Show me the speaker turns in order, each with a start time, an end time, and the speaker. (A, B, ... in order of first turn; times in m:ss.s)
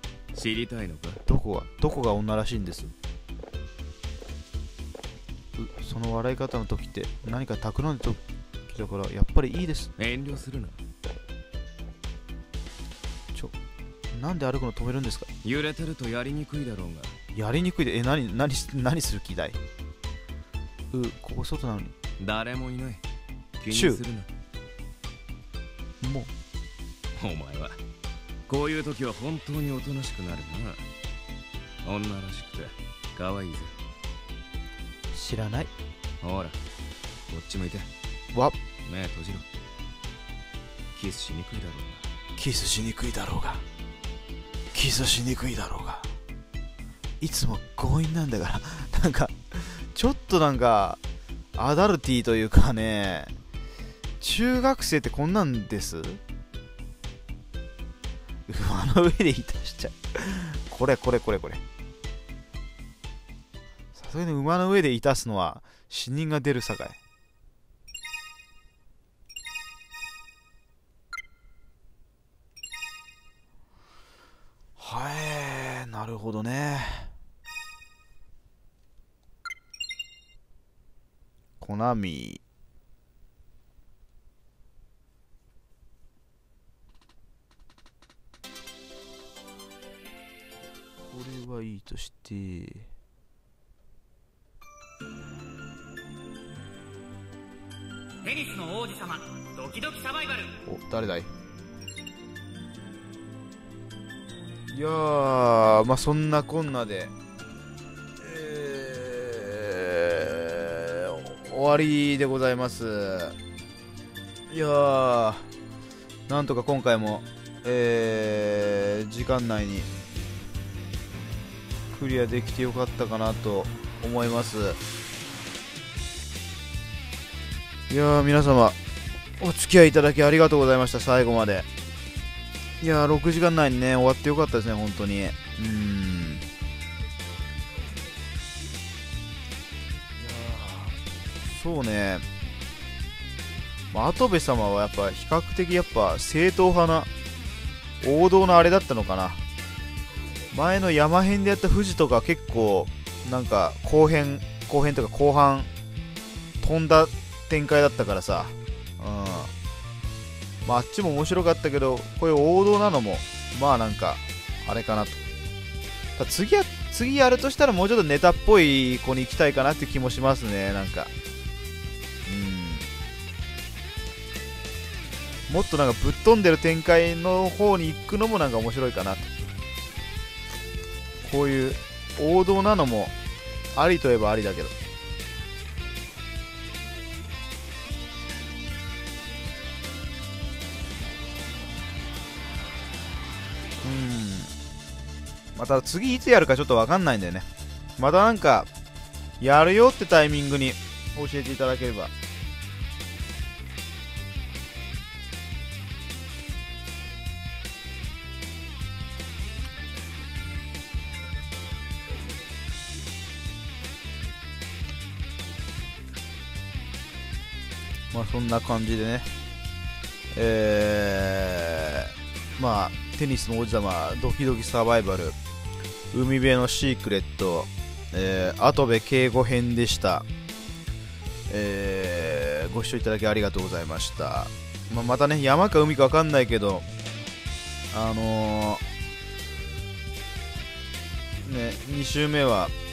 0:00.3-0:01.2 A
0:01.2-0:02.9 B
0:05.6-0:09.9 B
0:10.0-0:10.8 A
0:14.1-0:15.3 B
0:15.4-0:17.1 A
0:17.3-0:19.6 B
0:20.9-0:21.9 B
0:22.2-0:23.0 A
0:23.6-0:24.3 A
0:23.7-0:24.0 B
0:26.0-0:26.3 B
0:27.2-0:27.8 A
0:28.5-0:30.8 A
0:31.8-0:33.7 A
0:35.1-0:35.7 B
0:36.2-0:36.6 A
0:37.3-0:37.9 A
0:38.8-0:39.5 A
0:40.9-0:42.0 A
0:42.4-0:43.6 B
0:44.7-0:46.1 B
0:47.2-0:51.0 B
0:51.5-0:53.3 B
0:54.2-0:56.2 B
0:58.5-1:01.6 B
1:03.9-1:07.0 B
1:14.8-1:17.1 B
1:21.6-1:22.4 B
1:31.0-1:32.9 B
1:38.2-1:40.6 C
1:40.6-1:41.3 B
1:44.7-1:47.1 B
1:48.2-1:53.4 B
1:54.5-1:55.5 B
1:56.3-1:59.9 B
2:01.9-2:04.8 B
2:07.9-2:08.8 B
2:09.4-2:11.7 B
2:12.8-2:16.5 B
2:20.2-2:22.2 B
2:23.9-2:27.1 B
2:28.0-2:29.4 B
2:30.5-2:35.7 B
2:36.6-2:39.5 B
2:40.6-2:45.2 B
2:46.2-2:51.1 B
2:52.2-2:52.9 B
2:55.5-2:59.3 B
3:01.2-3:03.1 B
3:03.7-3:04.8 B
3:13.8-3:14.5 B
3:15.5-3:18.7 B
3:19.4-3:22.1 B
3:38.1-3:39.3 B
3:40.3-3:45.4 B
3:46.1-3:50.2 B
3:51.5-3:56.8 B
3:57.9-3:58.8 B
4:01.4-4:02.7 B